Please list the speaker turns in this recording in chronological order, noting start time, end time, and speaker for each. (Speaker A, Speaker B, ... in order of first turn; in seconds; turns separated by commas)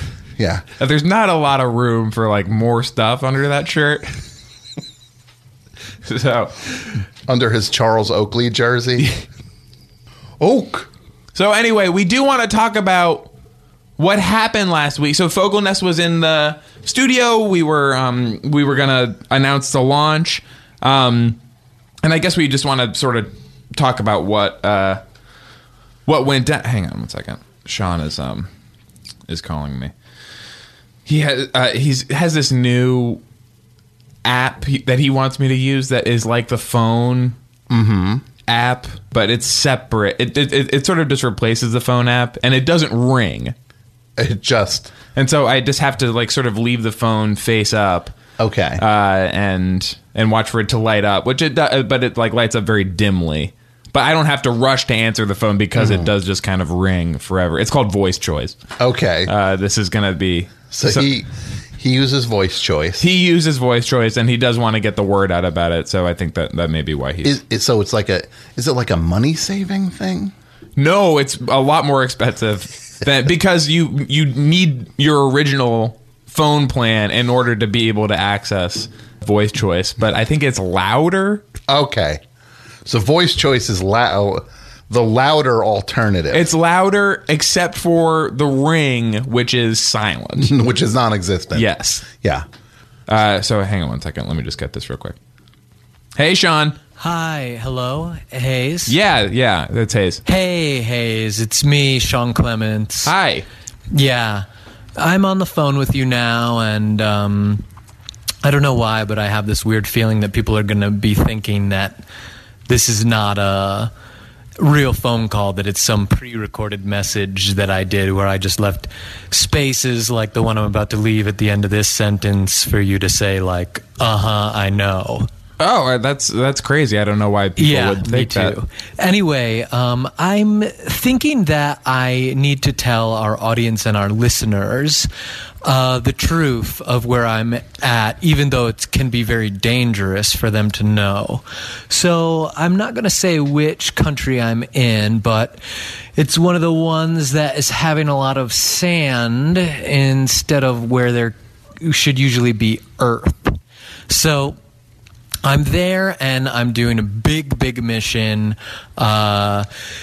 Speaker A: 0.4-0.7, Speaker B: 0.8-4.2, Speaker B: 6.0-6.8, Speaker A: 7.3-9.1, Speaker A: 10.4-10.9, Speaker B: 11.3-13.3, Speaker B: 14.0-21.4, Speaker B: 22.0-25.0, Speaker B: 26.1-28.5, Speaker B: 29.3-29.9, Speaker B: 31.1-33.2, Speaker B: 34.2-37.4, Speaker A: 37.7-38.3, Speaker B: 38.5-43.5, Speaker A: 44.2-44.9, Speaker B: 45.1-48.1, Speaker A: 48.4-48.8, Speaker B: 48.8-58.6, Speaker A: 55.8-56.1, Speaker A: 58.8-59.3, Speaker B: 59.2-61.1, Speaker A: 60.7-63.0, Speaker B: 63.0-67.4, Speaker A: 67.2-70.3, Speaker B: 70.8-81.4, Speaker A: 81.7-82.2, Speaker A: 82.8-86.5, Speaker B: 86.3-90.5, Speaker A: 90.4-92.4, Speaker B: 91.5-92.0, Speaker B: 93.1-95.1, Speaker B: 96.2-96.8, Speaker C: 97.0-99.0, Speaker B: 98.9-100.2, Speaker C: 100.2-103.1, Speaker B: 103.0-103.5, Speaker C: 103.9-107.6, Speaker C: 108.4-112.0, Speaker C: 112.7-113.9, Speaker C: 114.6-125.3, Speaker B: 125.6-128.6, Speaker C: 127.6-135.1, Speaker C: 135.6-145.6, Speaker C: 146.2-153.6, Speaker C: 154.1-154.6, Speaker C: 155.4-159.7